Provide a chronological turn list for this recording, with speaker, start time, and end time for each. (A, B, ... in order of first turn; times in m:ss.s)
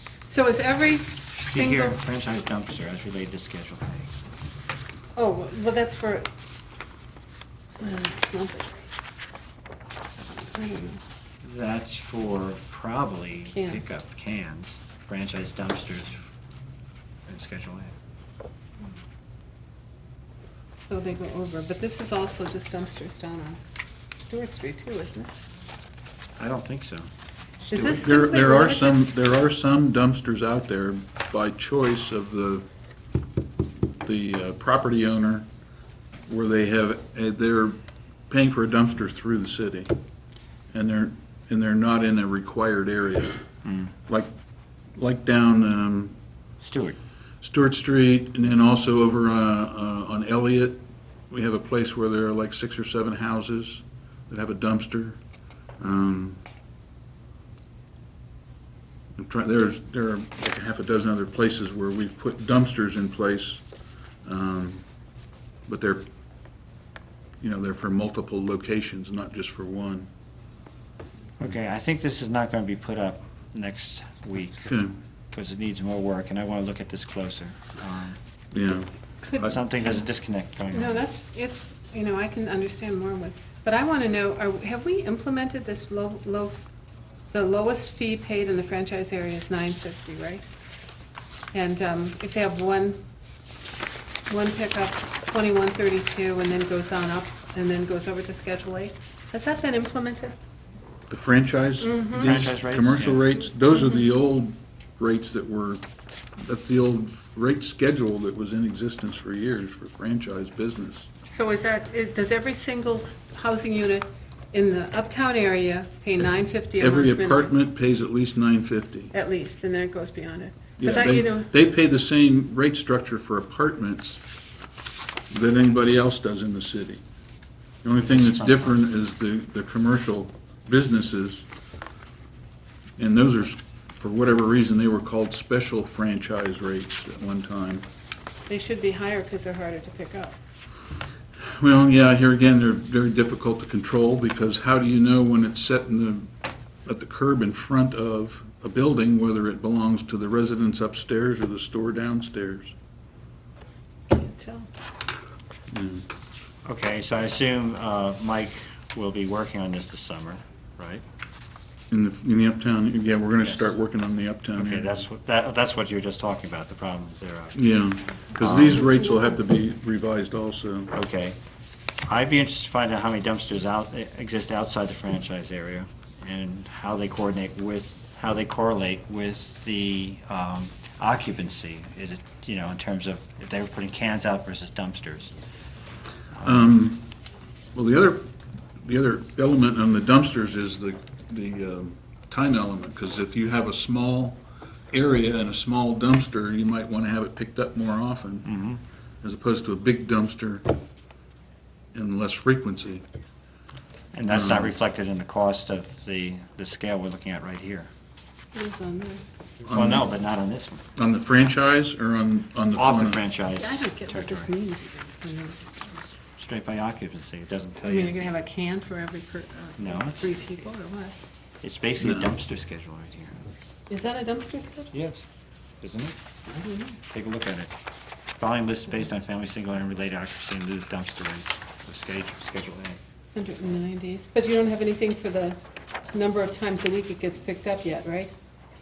0:00.3-0:02.0 A
0:01.4-0:04.1 B
0:05.2-0:06.3 A
0:07.8-0:08.8 A
0:10.5-0:11.0 A
0:11.4-0:16.3 B
0:13.4-0:13.9 A
0:17.3-0:17.9 B
0:20.8-0:23.6 A
0:24.1-0:25.3 A
0:26.4-0:27.1 B
0:27.7-0:28.1 B
0:27.7-0:29.1 A
0:28.0-0:32.7 C
0:34.0-0:35.5 C
0:36.3-0:37.8 C
0:38.3-0:39.9 C
0:40.7-0:43.4 C
0:43.6-0:43.9 B
0:45.0-0:46.2 C
0:46.6-0:47.0 B
0:47.4-0:55.2 C
0:55.8-0:56.4 C
0:59.2-1:03.6 C
1:04.2-1:04.8 C
1:05.7-1:06.0 C
1:07.4-1:10.1 C
1:11.4-1:14.7 B
1:14.6-1:15.0 C
1:15.3-1:18.2 B
1:18.5-1:18.9 C
1:19.4-1:21.0 B
1:20.7-1:26.6 A
1:27.3-1:30.4 A
1:31.5-1:33.0 A
1:34.3-1:40.4 A
1:41.1-1:45.8 C
1:41.8-1:42.3 A
1:42.2-1:43.3 B
1:46.4-1:51.1 C
1:51.3-1:57.5 A
1:56.8-1:59.1 C
1:59.1-2:01.5 A
2:00.8-2:04.2 C
2:05.3-2:07.0 C
2:07.8-2:11.5 C
2:08.1-2:08.7 B
2:13.0-2:17.8 C
2:18.5-2:20.4 A
2:21.4-2:26.3 C
2:26.8-2:32.7 C
2:34.1-2:34.7 A
2:35.7-2:36.0 C
2:36.6-2:41.0 B
2:41.9-2:45.0 C
2:43.4-2:43.8 B
2:44.6-2:47.7 B
2:47.6-2:50.9 C
2:48.4-2:48.8 B
2:48.9-2:49.3 A
2:50.9-2:51.4 B
2:52.1-3:05.3 B
3:06.4-3:06.7 B
3:06.4-3:07.0 C
3:07.8-3:08.3 C
3:08.8-3:14.4 C
3:14.9-3:18.5 C
3:18.5-3:18.8 B
3:19.2-3:20.7 C
3:21.9-3:23.0 C
3:24.1-3:27.9 B
3:24.3-3:24.7 C
3:28.5-3:29.2 A
3:29.6-3:30.1 C
3:29.7-3:30.8 B
3:31.0-3:33.2 C
3:32.8-3:34.5 B
3:33.6-3:35.8 A
3:36.4-3:38.2 B
3:37.8-3:41.2 A
3:39.8-3:40.5 B
3:41.6-3:43.4 B
3:42.0-3:42.3 C
3:43.9-3:44.9 A
3:44.9-3:45.2 B
3:45.8-3:46.2 B
3:46.6-3:47.0 A
3:47.1-3:47.7 B
3:48.4-3:53.0 B
3:53.4-3:58.3 A